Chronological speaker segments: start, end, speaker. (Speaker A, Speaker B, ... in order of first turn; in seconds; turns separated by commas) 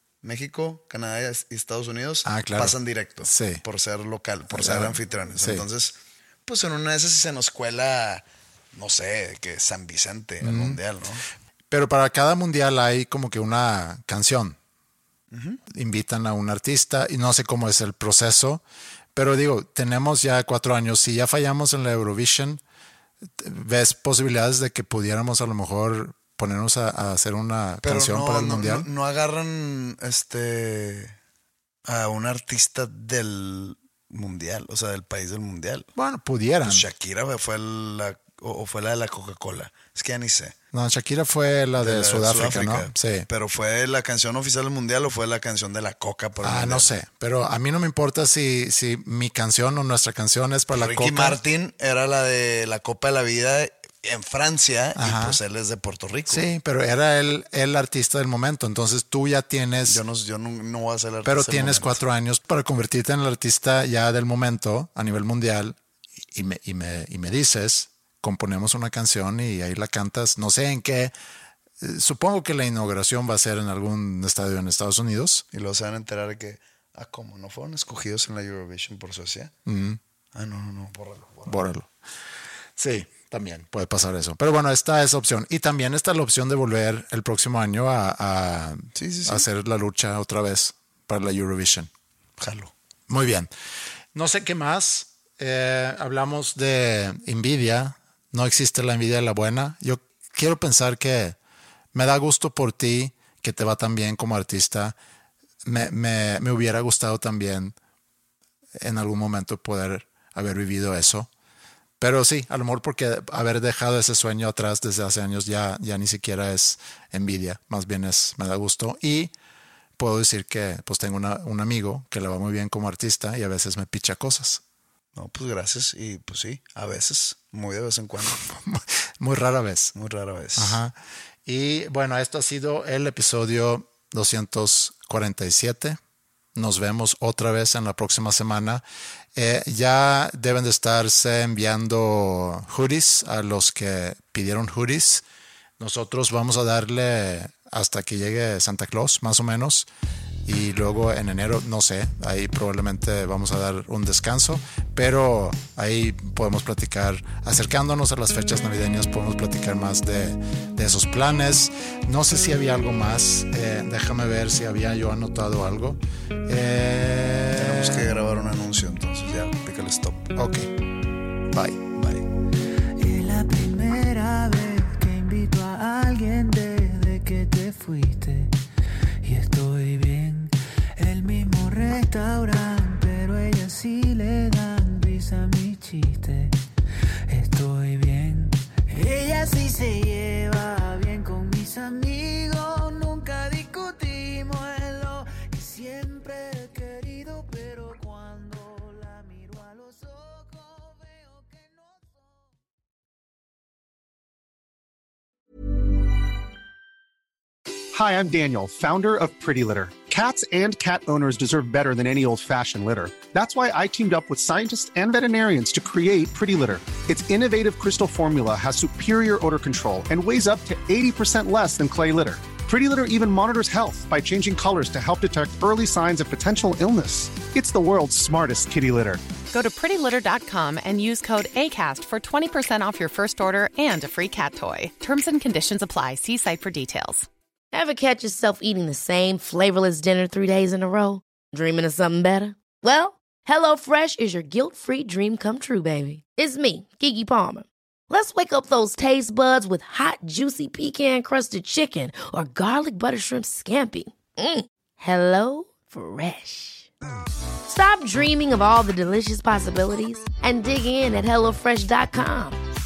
Speaker A: 0.2-11.2, Speaker B: 2.3-2.8, Speaker B: 3.3-3.6, Speaker B: 4.5-5.7, Speaker B: 10.4-10.8, Speaker B: 11.7-14.6, Speaker A: 15.3-15.6, Speaker B: 15.7-18.6, Speaker B: 19.1-22.6, Speaker B: 23.4-28.9, Speaker A: 27.8-31.1, Speaker A: 31.9-35.9, Speaker B: 36.0-36.9, Speaker A: 36.6-40.5, Speaker B: 40.7-43.3, Speaker A: 41.8-46.9, Speaker B: 46.4-51.4, Speaker A: 50.7-56.5, Speaker B: 55.0-55.4, Speaker B: 56.3-60.0, Speaker A: 59.9-62.0, Speaker B: 61.2-65.8, Speaker B: 66.3-71.1, Speaker B: 71.8-75.4, Speaker A: 75.5-79.5, Speaker B: 79.7-80.0, Speaker A: 80.3-81.7, Speaker B: 81.5-81.9, Speaker B: 82.8-91.9, Speaker A: 89.0-89.5, Speaker A: 92.4-92.7, Speaker B: 93.1-93.5, Speaker B: 94.1-101.4, Speaker B: 101.9-105.0, Speaker B: 105.6-107.8, Speaker B: 108.8-111.3, Speaker B: 112.0-119.3, Speaker B: 120.0-124.6, Speaker A: 125.2-128.4, Speaker B: 128.3-129.9, Speaker A: 129.9-130.8, Speaker B: 130.6-130.9, Speaker B: 131.5-136.0, Speaker B: 136.6-138.8, Speaker B: 139.3-145.2, Speaker B: 145.8-149.9, Speaker B: 150.4-168.1, Speaker A: 167.5-170.3, Speaker B: 170.3-170.7, Speaker B: 171.5-171.8, Speaker A: 171.9-172.3, Speaker C: 173.0-178.5, Speaker C: 179.2-186.6, Speaker C: 187.3-201.8, Speaker D: 207.9-229.2, Speaker E: 229.5-237.3, Speaker F: 237.7-256.9, Speaker F: 257.7-262.6